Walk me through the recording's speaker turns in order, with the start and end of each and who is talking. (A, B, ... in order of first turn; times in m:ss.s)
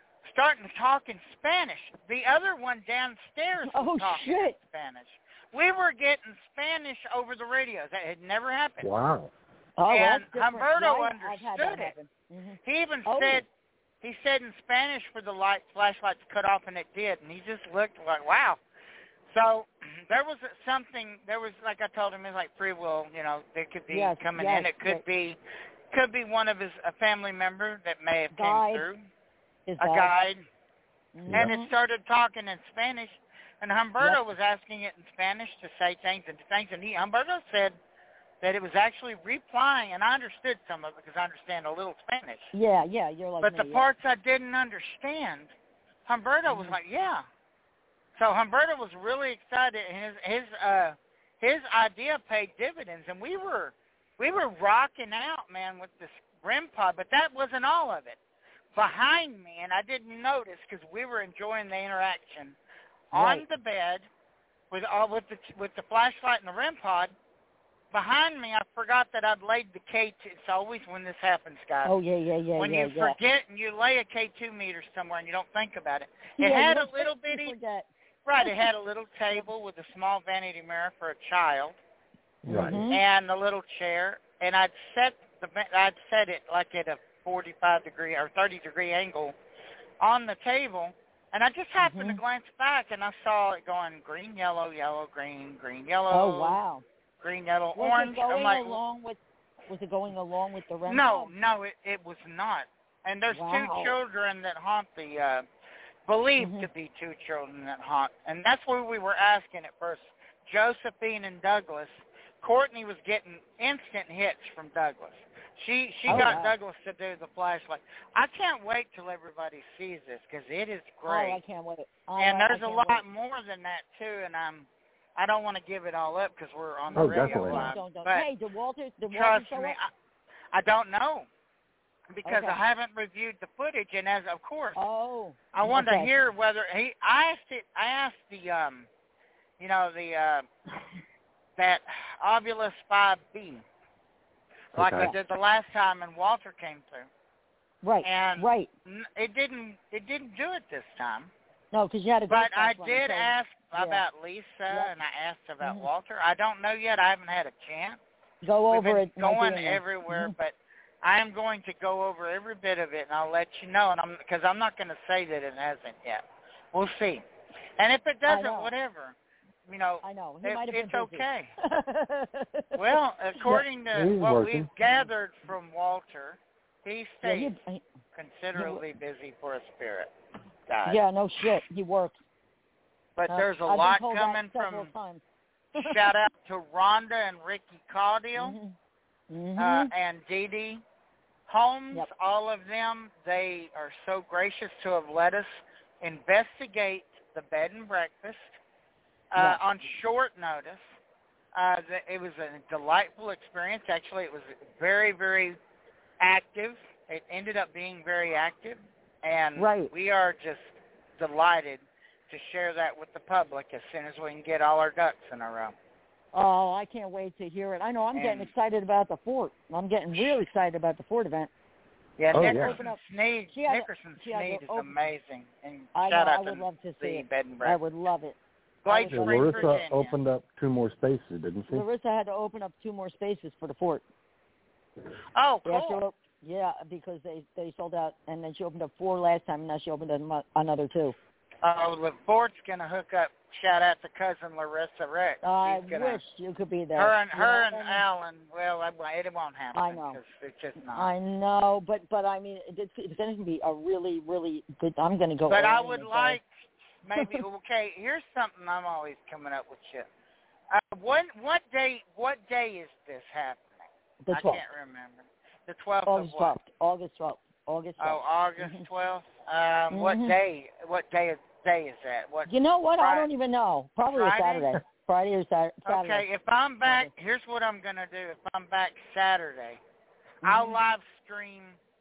0:00.2-0:08.9 A
0:03.6-0:04.6 B
0:08.8-0:09.3 C
0:09.8-0:13.4 B
0:09.9-0:11.9 A
0:12.6-0:13.5 A
0:14.0-0:18.6 A
0:19.3-0:25.4 A
0:23.9-0:25.0 B
0:25.9-0:29.0 A
0:28.3-0:28.8 B
0:29.7-0:30.1 B
0:29.8-0:30.4 A
0:31.1-0:31.7 B
0:31.3-0:37.8 A
0:38.4-0:42.5 A
0:42.5-0:43.9 B
0:43.4-0:45.5 A
0:46.1-0:47.2 A
0:46.5-0:46.8 B
0:48.2-0:58.2 A
0:58.7-1:02.6 A
1:03.1-1:04.0 A
1:03.1-1:03.4 B
1:04.7-1:07.1 A
1:07.9-1:11.9 A
1:11.8-1:13.2 B
1:12.6-1:17.5 A
1:16.4-1:17.9 B
1:18.2-1:21.8 A
1:22.4-1:22.8 C
1:22.5-1:23.0 B
1:22.9-1:29.3 A
1:30.0-1:36.6 A
1:31.8-1:32.2 B
1:36.1-1:36.8 B
1:37.2-1:38.8 A
1:37.8-1:41.3 B
1:40.9-1:45.4 A
1:43.3-1:43.9 B
1:46.1-2:01.4 A
1:46.4-1:46.7 B
1:56.1-1:56.4 C
1:56.1-1:56.5 B
2:01.1-2:03.0 B
2:02.2-2:08.3 A
2:06.9-2:09.8 B
2:06.9-2:07.7 C
2:09.1-2:09.9 A
2:10.5-2:11.3 A
2:12.1-2:14.8 A
2:12.2-2:12.6 B
2:14.8-2:16.1 B
2:15.5-2:18.9 A
2:19.6-2:20.5 A
2:21.6-2:23.6 A
2:24.7-2:27.1 A
2:24.7-2:25.1 C
2:27.8-2:28.7 B
2:28.0-2:31.3 A
2:31.7-2:34.0 B
2:32.3-2:38.0 A
2:35.6-2:35.9 B
2:38.4-2:40.3 B
2:38.7-2:47.2 A
2:47.8-2:49.2 A
2:48.3-2:48.7 B
2:49.7-2:51.5 A
2:50.0-2:53.0 B
2:52.7-2:57.6 A
2:53.5-2:54.7 C
2:54.8-2:55.1 B
2:57.2-2:57.8 B
2:58.1-3:00.1 A
2:58.6-2:58.8 B
3:00.7-3:01.0 A
3:00.8-3:02.2 B
3:03.2-3:04.9 A
3:03.3-3:05.2 B
3:05.8-3:08.6 A
3:05.8-3:06.2 B
3:08.4-3:08.8 B
3:09.3-3:09.9 B
3:09.6-3:10.8 A
3:11.5-3:18.6 A
3:19.3-3:20.9 A
3:19.4-3:19.6 B
3:21.5-3:25.6 A
3:26.2-3:35.7 A
3:29.6-3:29.9 B
3:36.3-3:41.5 B
3:38.1-3:38.5 A
3:42.2-3:47.8 A
3:42.3-3:42.8 C
3:42.4-3:43.0 B
3:43.5-3:44.9 B
3:45.9-3:49.8 B
3:48.8-3:50.1 A
3:49.1-3:51.8 C
3:51.7-3:54.0 B
3:55.3-3:56.0 A
3:55.6-4:01.1 B
4:01.6-4:06.2 A
4:05.4-4:08.0 B
4:06.9-4:11.1 A
4:09.7-4:10.2 B
4:10.9-4:16.4 B
4:15.5-4:16.5 A
4:17.0-4:20.1 A
4:17.2-4:17.4 B
4:20.7-4:26.5 A
4:24.2-4:24.6 B
4:26.0-4:28.8 B
4:28.0-4:33.3 A
4:29.9-4:30.4 B
4:32.5-4:36.2 B
4:34.1-4:34.8 A
4:35.9-4:39.8 A
4:36.8-4:37.1 B
4:40.4-4:40.8 B
4:40.4-4:41.8 A